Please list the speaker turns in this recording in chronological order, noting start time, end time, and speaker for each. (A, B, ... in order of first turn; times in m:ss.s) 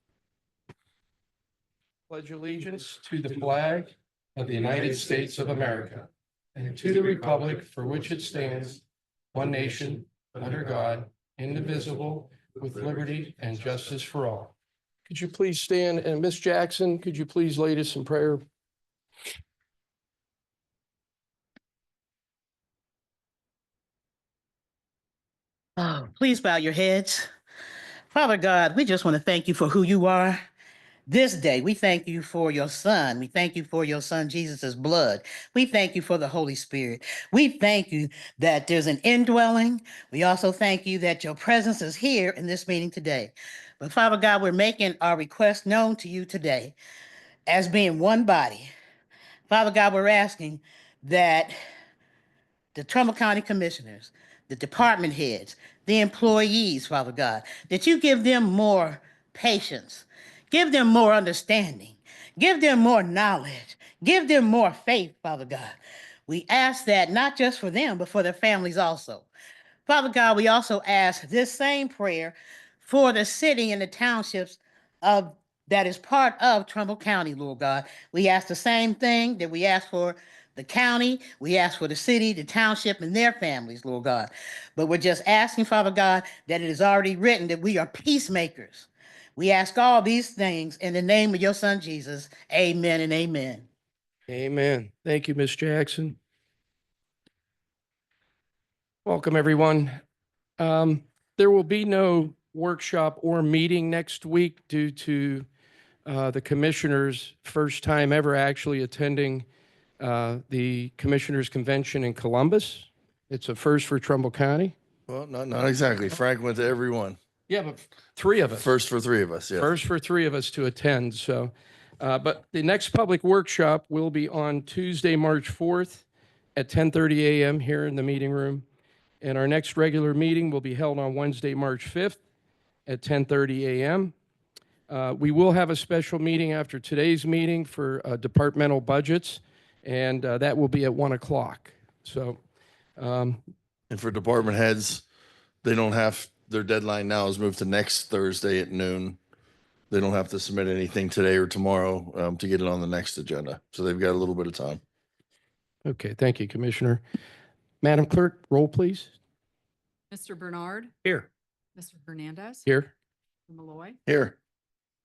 0:02.1-0:08.8 A
0:09.3-0:14.5 A
0:15.1-0:18.4 A
0:25.8-0:27.3 B
0:28.1-0:30.4 B
0:31.1-0:46.8 B
0:47.5-0:48.7 B
0:49.5-0:51.6 B
0:52.8-1:05.8 B
1:06.3-1:09.3 B
1:09.9-1:33.7 B
1:34.3-1:36.2 A
1:39.0-1:40.0 A
1:40.6-1:45.5 A
1:46.0-1:49.5 A
1:50.0-1:54.7 A
1:55.1-1:57.2 C
1:57.5-1:58.7 A
1:58.5-1:59.7 C
1:59.5-2:06.0 A
2:06.6-2:08.6 A
2:09.2-2:12.2 A
2:12.9-2:14.1 A
2:14.9-2:22.4 A
2:23.0-2:23.4 A
2:23.9-2:25.0 C
2:25.6-2:29.2 C
2:29.9-2:34.8 C
2:35.8-2:37.0 A
2:37.8-2:39.1 A
2:40.1-2:40.9 D
2:41.8-2:42.7 D
2:42.7-2:42.9 A
2:43.5-2:44.0 D
2:44.1-2:44.4 C